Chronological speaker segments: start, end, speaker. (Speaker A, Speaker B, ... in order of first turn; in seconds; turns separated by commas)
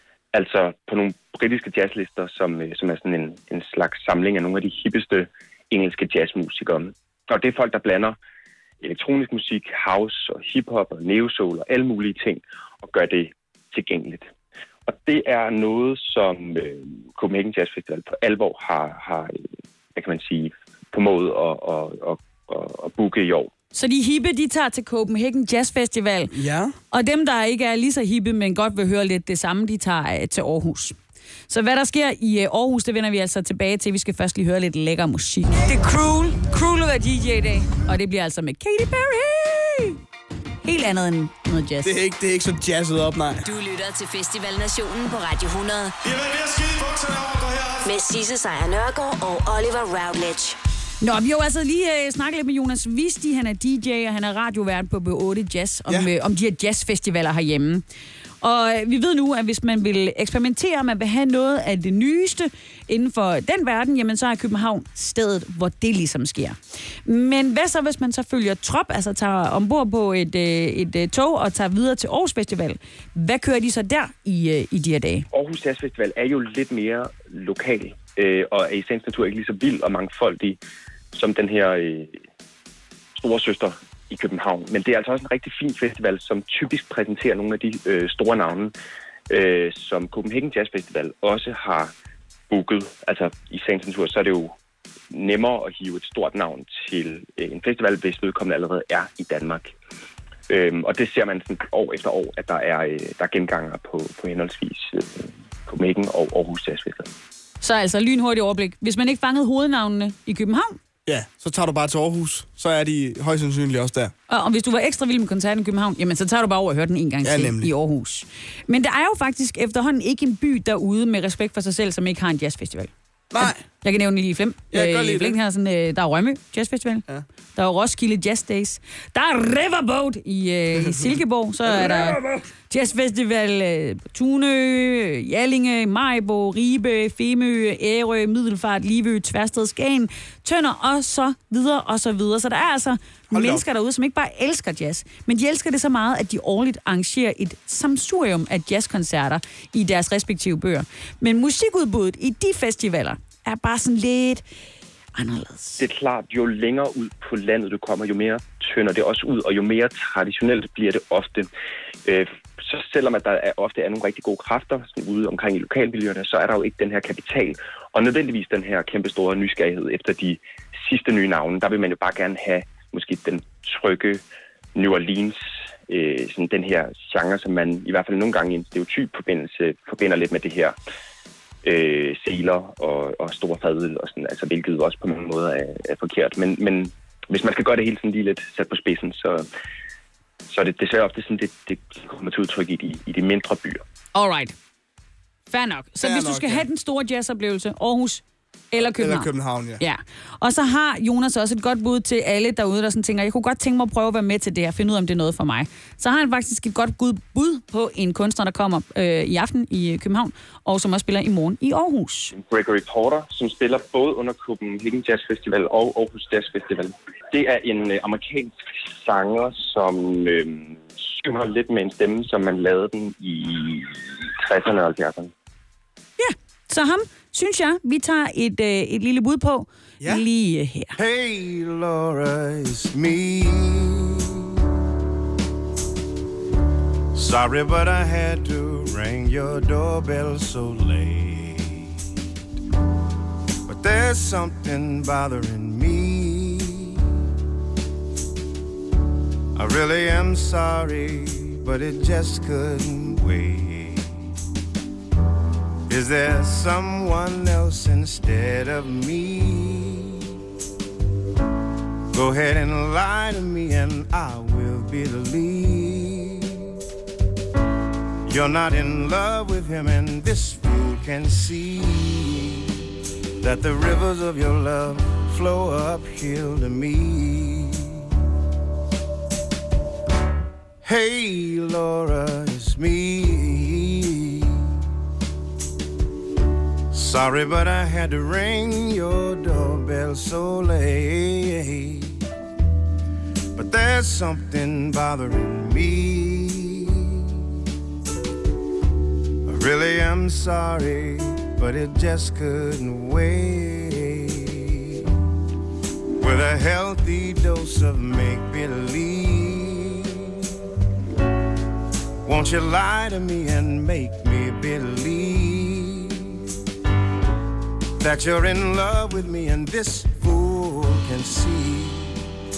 Speaker A: 0.3-8.2, Speaker A: 8.8-14.3, Speaker A: 14.9-19.4, Speaker A: 19.9-23.5, Speaker B: 23.7-26.3, Speaker C: 26.3-26.8, Speaker B: 26.9-31.0, Speaker B: 31.5-40.0, Speaker B: 40.6-42.0, Speaker C: 41.8-43.5, Speaker D: 43.4-46.0, Speaker C: 46.0-47.8, Speaker D: 47.8-50.6, Speaker B: 51.0-57.8, Speaker C: 55.9-56.1, Speaker B: 58.4-75.3, Speaker A: 75.3-80.6, Speaker A: 81.1-82.2, Speaker A: 83.2-88.7, Speaker A: 89.3-91.9, Speaker A: 92.5-94.5, Speaker A: 95.1-99.8, Speaker A: 100.5-107.1, Speaker B: 107.6-110.8, Speaker C: 111.1-114.1, Speaker B: 114.3-154.4, Speaker C: 117.2-117.7, Speaker C: 123.3-123.7, Speaker C: 124.7-125.4, Speaker C: 130.8-132.4, Speaker C: 143.3-143.7, Speaker B: 155.2-155.9, Speaker A: 155.8-161.5, Speaker A: 162.1-174.2, Speaker A: 174.8-180.8, Speaker A: 181.6-189.5, Speaker A: 190.5-193.8, Speaker B: 194.1-194.5, Speaker B: 195.5-212.3, Speaker C: 196.0-196.7, Speaker C: 198.8-199.8, Speaker A: 212.3-225.3, Speaker B: 226.2-231.0, Speaker E: 231.0-234.4, Speaker E: 237.2-242.0, Speaker E: 243.7-247.0, Speaker E: 249.6-254.3, Speaker E: 255.9-260.3, Speaker E: 262.1-266.8, Speaker E: 268.3-272.9, Speaker E: 273.4-278.1, Speaker E: 280.8-284.7, Speaker E: 286.9-292.2, Speaker E: 293.6-297.2, Speaker E: 299.5-305.1, Speaker E: 306.2-310.5, Speaker E: 312.2-316.5, Speaker E: 318.0-322.2